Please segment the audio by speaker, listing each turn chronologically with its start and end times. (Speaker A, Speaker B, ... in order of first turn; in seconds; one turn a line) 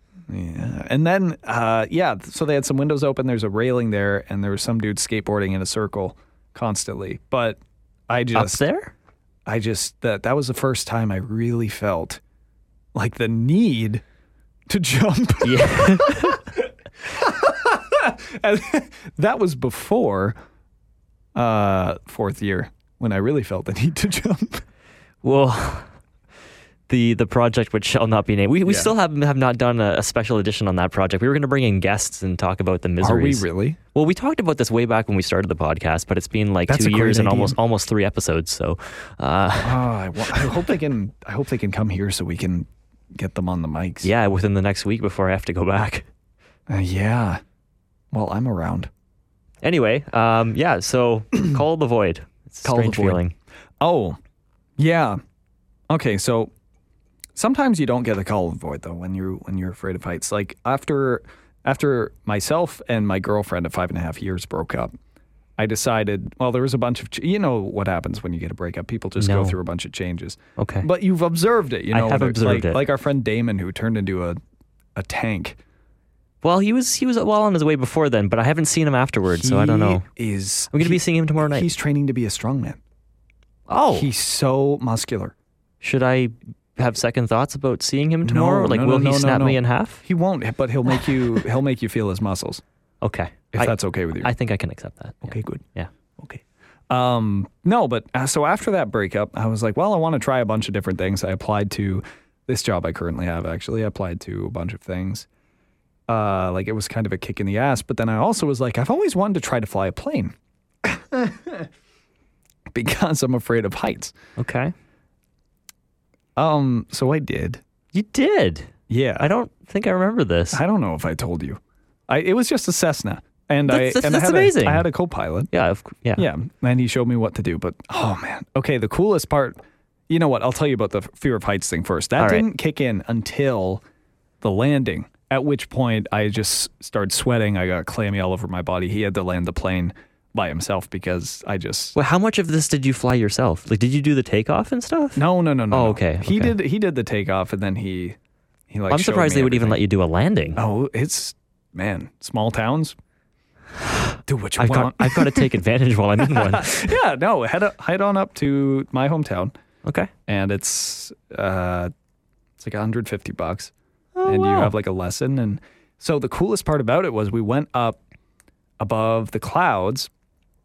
Speaker A: 0.3-8.6
Speaker B: 8.3-8.9
Speaker A: 9.4-12.2
Speaker A: 12.9-14.0
Speaker A: 14.7-20.4
Speaker B: 15.4-16.4
Speaker A: 21.3-24.6
Speaker B: 25.2-25.9
Speaker B: 26.9-40.7
Speaker A: 28.6-28.9
Speaker A: 33.0-33.8
Speaker A: 36.7-37.5
Speaker A: 39.6-44.1
Speaker B: 44.0-46.0
Speaker A: 46.7-47.4
Speaker A: 48.1-48.9
Speaker B: 49.6-53.3
Speaker A: 52.6-53.2
Speaker A: 53.8-54.2
Speaker A: 54.8-55.2
Speaker A: 55.9-56.5
Speaker A: 57.4-64.9
Speaker A: 65.6-74.4
Speaker B: 69.2-69.6
Speaker B: 70.6-70.9
Speaker B: 71.9-72.8
Speaker A: 74.9-75.6
Speaker B: 76.4-80.0
Speaker A: 79.3-82.8
Speaker B: 80.7-81.7
Speaker B: 83.7-84.1
Speaker A: 83.9-85.3
Speaker B: 85.8-90.0
Speaker A: 88.2-92.6
Speaker B: 93.0-95.9
Speaker A: 93.5-94.3
Speaker A: 95.2-95.6
Speaker A: 96.2-105.3
Speaker A: 106.1-111.7
Speaker A: 112.7-114.1
Speaker B: 114.4-114.7
Speaker A: 116.3-117.6
Speaker B: 117.9-120.6
Speaker A: 118.9-119.3
Speaker A: 120.5-125.5
Speaker B: 123.7-124.9
Speaker B: 125.5-126.3
Speaker A: 126.2-133.8
Speaker B: 132.2-132.5
Speaker A: 134.4-141.9
Speaker B: 141.9-146.6
Speaker A: 145.2-148.2
Speaker A: 148.7-149.8
Speaker B: 148.9-150.6
Speaker A: 150.6-152.9
Speaker A: 154.3-155.5
Speaker B: 154.6-156.9
Speaker A: 156.2-159.5
Speaker B: 159.8-160.1
Speaker A: 160.3-161.9
Speaker A: 162.6-163.7
Speaker B: 164.1-164.7
Speaker A: 164.2-168.0
Speaker A: 168.8-170.1